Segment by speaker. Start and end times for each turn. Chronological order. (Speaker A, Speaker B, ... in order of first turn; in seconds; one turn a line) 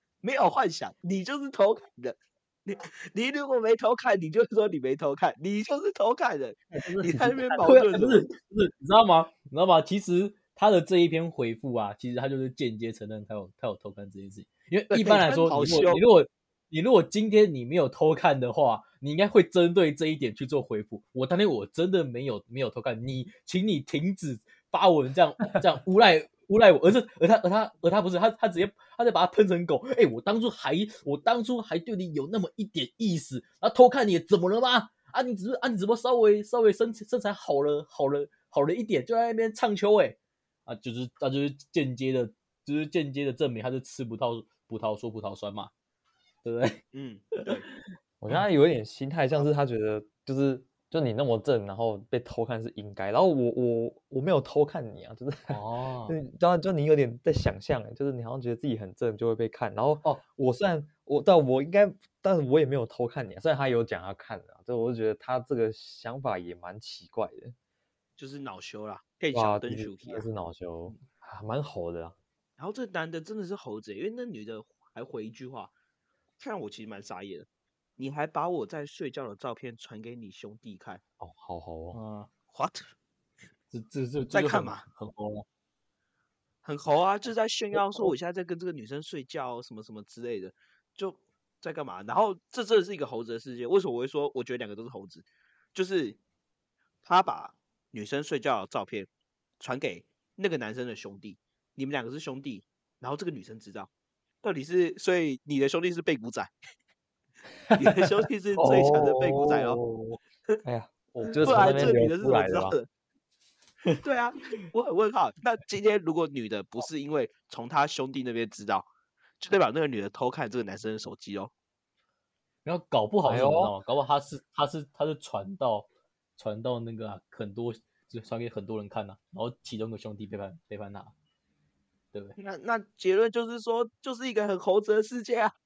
Speaker A: 0.2-8.3
Speaker B: 6.7-40.2
Speaker A: 14.9-16.0
Speaker B: 40.7-45.7
Speaker B: 46.4-46.8
Speaker A: 46.9-47.7
Speaker C: 48.2-67.5
Speaker B: 55.5-56.2
Speaker A: 68.2-70.3
Speaker C: 69.3-72.2
Speaker A: 72.6-75.7
Speaker A: 76.4-81.0
Speaker C: 81.2-82.0
Speaker B: 81.9-82.3
Speaker A: 82.5-82.9
Speaker B: 83.7-85.5
Speaker A: 84.3-84.8
Speaker A: 86.7-96.2
Speaker A: 97.0-103.9
Speaker A: 104.4-106.5
Speaker A: 107.7-109.8
Speaker C: 108.6-109.9
Speaker C: 110.6-112.8
Speaker A: 111.3-112.9
Speaker B: 111.5-111.7
Speaker A: 114.0-118.9
Speaker A: 119.4-121.5
Speaker B: 122.7-125.9
Speaker C: 123.2-123.7
Speaker B: 126.4-131.1
Speaker A: 132.4-135.5